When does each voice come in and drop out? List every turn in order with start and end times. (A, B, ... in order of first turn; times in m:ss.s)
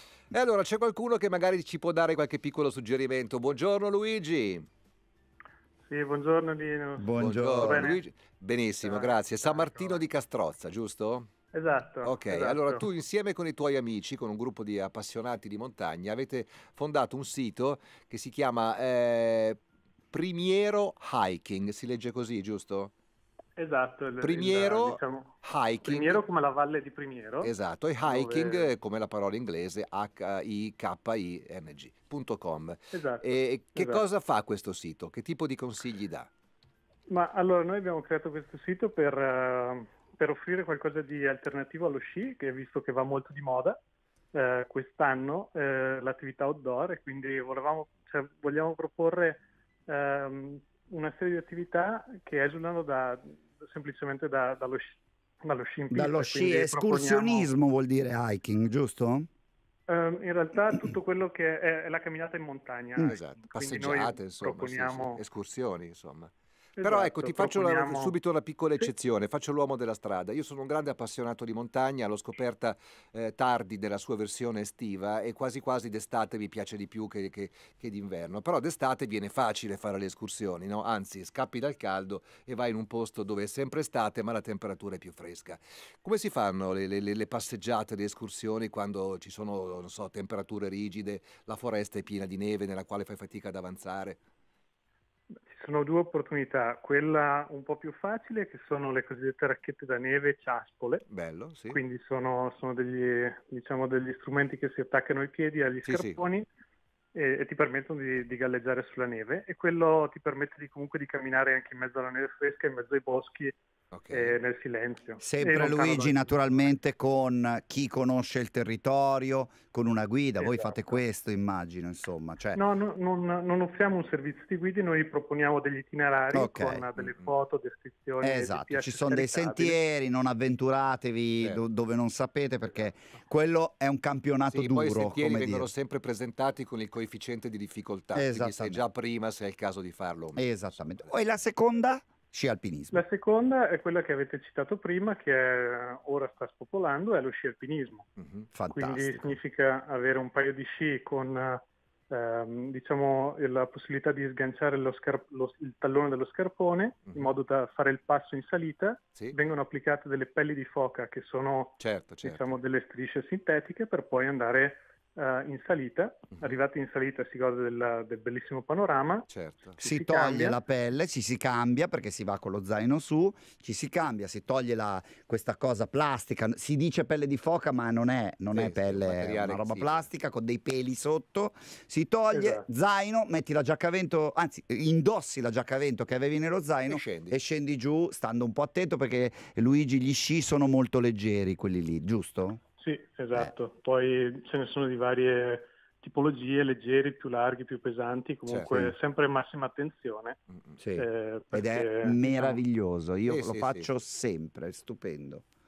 0:00.3-0:04.6 A
0:05.8-0:08.0 B
0:07.0-0:07.9 C
0:07.2-0:11.3 A
0:08.8-0:10.0 B
0:11.5-0:12.8 B
0:12.0-0:19.6 A
0:20.1-0:22.9 A
0:23.6-0:27.5 B
0:24.2-0:26.2 A
0:27.4-0:36.3 A
0:28.0-0:28.7 B
0:32.9-0:34.0 B
0:37.1-0:43.8 B
0:44.3-0:57.5 B
0:55.9-0:59.3 C
0:59.9-1:05.2 B
1:03.0-1:34.2 A
1:06.8-1:08.2 B
1:35.4-1:41.0 B
1:41.1-1:41.8 A
1:41.7-1:46.5 B
1:45.8-1:46.2 A
1:47.1-1:53.6 B
1:53.9-1:54.4 A
1:54.1-1:56.7 B
1:55.2-2:02.6 C
2:00.4-2:01.0 B
2:02.5-2:09.8 B
2:06.3-2:06.8 C
2:07.0-2:07.3 A
2:08.2-2:15.7 C
2:14.5-2:20.8 A
2:18.1-2:18.8 C
2:20.4-2:23.0 C
2:22.9-2:28.1 B
2:28.2-2:28.5 A
2:28.5-2:29.3 C
2:28.7-2:50.6 B
2:41.8-2:42.5 A
2:49.3-2:49.8 A
2:49.8-3:12.6 C
2:58.5-3:00.1 A
3:02.3-3:02.6 B
3:06.9-3:07.4 A
3:12.8-3:20.4 B
3:18.5-3:18.8 A
3:20.8-3:25.4 C
3:21.0-3:22.6 B
3:23.3-3:23.9 A